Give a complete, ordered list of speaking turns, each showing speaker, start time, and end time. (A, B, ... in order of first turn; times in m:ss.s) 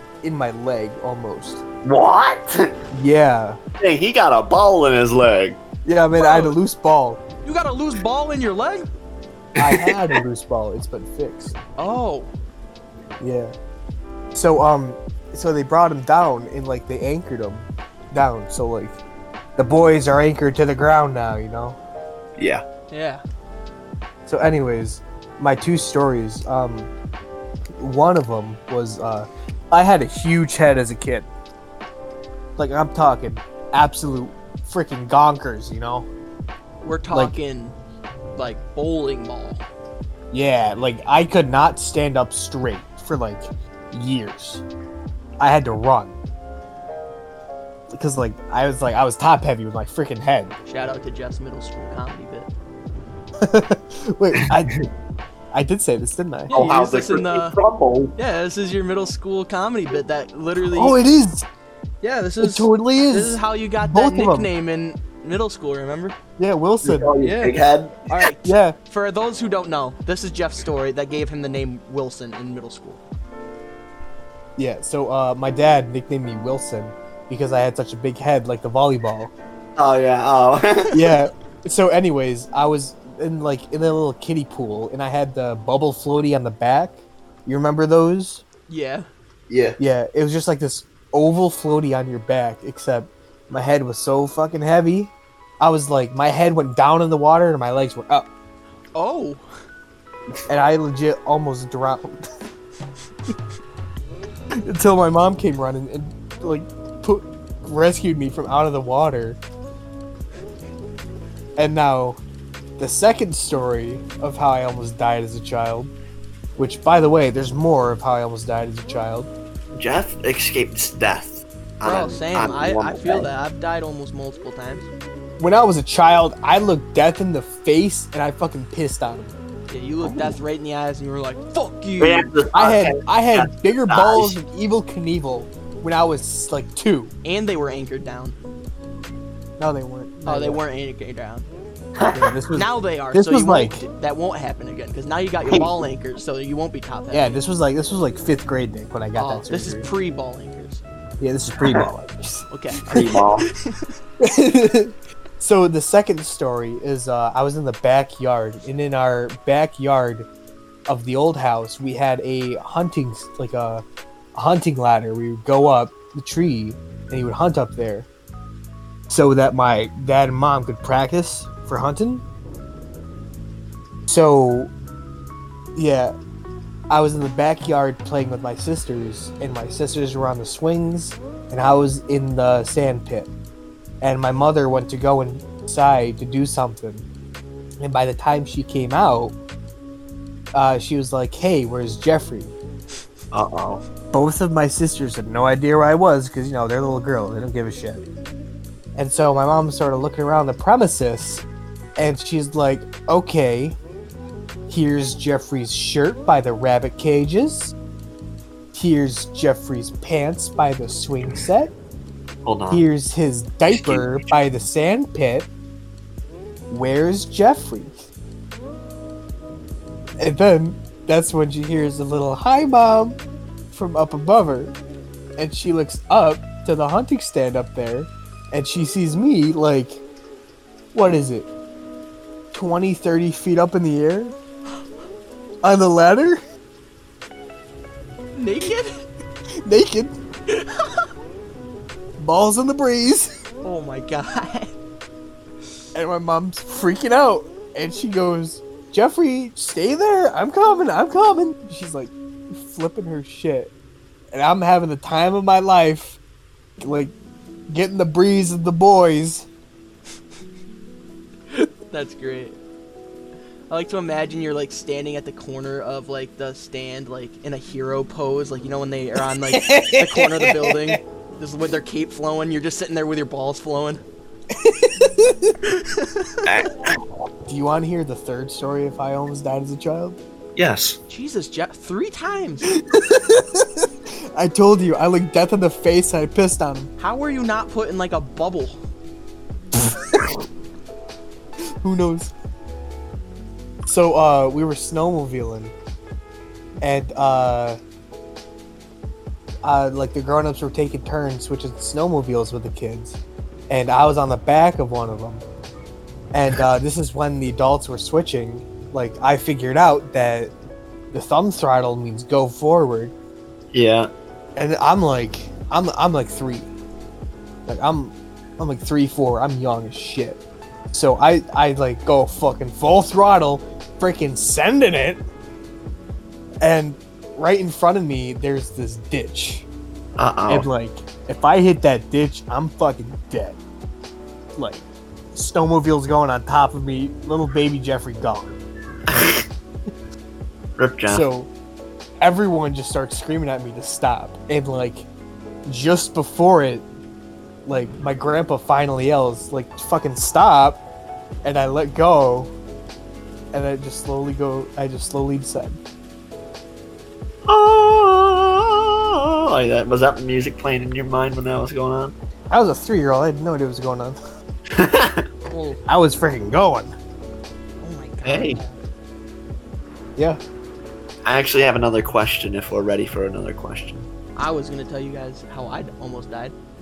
0:00.2-0:01.6 A
0:01.8-0:02.8 B
0:02.9-0:03.6 A
0:03.8-0:05.6 B
0:05.8-0:07.2 A
0:06.2-0:06.6 C
0:07.4-0:08.9 C
0:09.6-0:11.5 A
0:09.6-0:10.2 B
0:11.8-0:12.3 C
0:13.2-0:13.5 A
0:14.3-0:19.0 A
0:19.6-0:21.8 A
0:22.4-0:22.6 B
0:22.9-0:23.2 C
0:24.2-0:26.9 A
0:27.8-0:31.3 A
0:32.6-0:36.1 A
0:36.8-0:37.8 C
0:38.3-0:39.6 C
0:40.3-0:44.6 A
0:45.4-0:46.2 A
0:47.9-0:50.5 A
0:50.6-0:52.5 C
0:53.4-0:54.8 A
0:54.4-0:54.8 B
0:55.5-0:56.6 A
0:56.5-0:57.6 C
0:56.5-0:58.1 B
0:58.2-1:01.0 C
1:00.6-1:01.4 A
1:02.0-1:06.2 C
1:02.4-1:04.5 A
1:06.4-1:07.1 A
1:06.8-1:08.1 B
1:07.2-1:13.0 C
1:08.4-1:08.8 A
1:14.6-1:19.3 A
1:19.8-1:21.1 B
1:20.9-1:28.4 A
1:28.7-1:29.1 C
1:29.5-1:29.8 B
1:29.8-1:38.3 A
1:38.9-1:39.4 C
1:40.5-1:42.3 A
1:44.6-1:49.4 A
1:51.6-1:52.2 A
1:52.8-1:55.9 A
1:56.6-1:59.3 A
1:59.7-2:03.3 B
2:01.8-2:04.9 C
2:05.4-2:09.3 A
2:09.7-2:12.3 C
2:10.0-2:10.3 B
2:12.0-2:14.4 B
2:12.5-2:17.1 A
2:17.2-2:18.3 C
2:19.6-2:20.6 A
2:20.2-2:21.5 C
2:22.0-2:22.4 B
2:22.1-2:23.8 A
2:22.5-2:27.4 C
2:27.1-2:29.9 A
2:29.2-2:30.8 C
2:31.2-2:33.1 A
2:32.5-2:33.9 C
2:32.9-2:33.5 B
2:34.2-2:40.3 A
2:40.9-2:43.8 A
2:44.3-2:48.1 A
2:49.1-2:52.2 A
2:54.1-2:54.7 A
2:55.8-2:56.1 A
2:56.9-3:03.3 A
3:04.0-3:07.0 A
3:07.8-3:09.4 A
3:10.5-3:12.5 A
3:13.3-3:13.8 B
3:14.1-3:18.0 A
3:19.0-3:21.4 A
3:22.0-3:23.8 A
3:24.7-3:27.8 A
3:28.7-3:31.7 A
3:32.4-3:32.8 B
3:32.7-3:35.5 A
3:33.7-3:34.2 B
3:36.7-3:38.0 A
3:40.2-3:43.2 A
3:43.7-3:44.7 A
3:45.4-3:50.0 A
3:50.9-3:51.5 A
3:52.5-3:54.3 A
3:55.6-3:56.4 A
3:58.3-3:59.0 C
3:59.6-4:00.2 A
4:00.5-4:01.1 C
4:02.2-4:03.3 A
4:03.6-4:04.7 C
4:05.9-4:13.7 A
4:14.3-4:16.2 A
4:16.8-4:17.1 A
4:17.7-4:19.5 A
4:21.5-4:22.6 C
4:23.7-4:34.0 C
4:29.5-4:31.0 A
4:34.5-4:35.6 A
4:35.6-4:36.4 C
4:36.4-4:37.0 B
4:37.5-4:40.2 A
4:40.6-4:41.0 B
4:41.1-4:42.7 C
4:42.7-4:46.9 A
4:47.0-4:48.8 C
4:51.8-4:52.3 A
4:53.8-4:55.7 A
4:56.8-4:57.8 A
4:59.6-5:05.4 A
5:06.3-5:10.5 A
5:11.1-5:13.1 A
5:13.7-5:14.1 B
5:14.6-5:16.7 A
5:17.6-5:20.4 A
5:20.9-5:25.2 A
5:26.6-5:29.7 A
5:30.2-5:30.7 B
5:30.5-5:33.6 A
5:34.6-5:38.6 A
5:39.1-5:39.4 B
5:40.8-5:41.2 B
5:41.1-5:41.5 A
5:42.2-5:45.1 A
5:45.6-5:46.8 A
5:47.6-5:50.8 A
5:51.4-5:52.5 A
5:53.5-5:55.8 A
5:57.4-6:02.1 B
6:02.5-6:04.2 A
6:04.7-6:05.3 B
6:05.5-6:05.8 C
6:05.8-6:06.9 A
6:07.8-6:08.8 C
6:08.2-6:08.6 B
6:11.2-6:14.1 B
6:14.4-6:16.5 C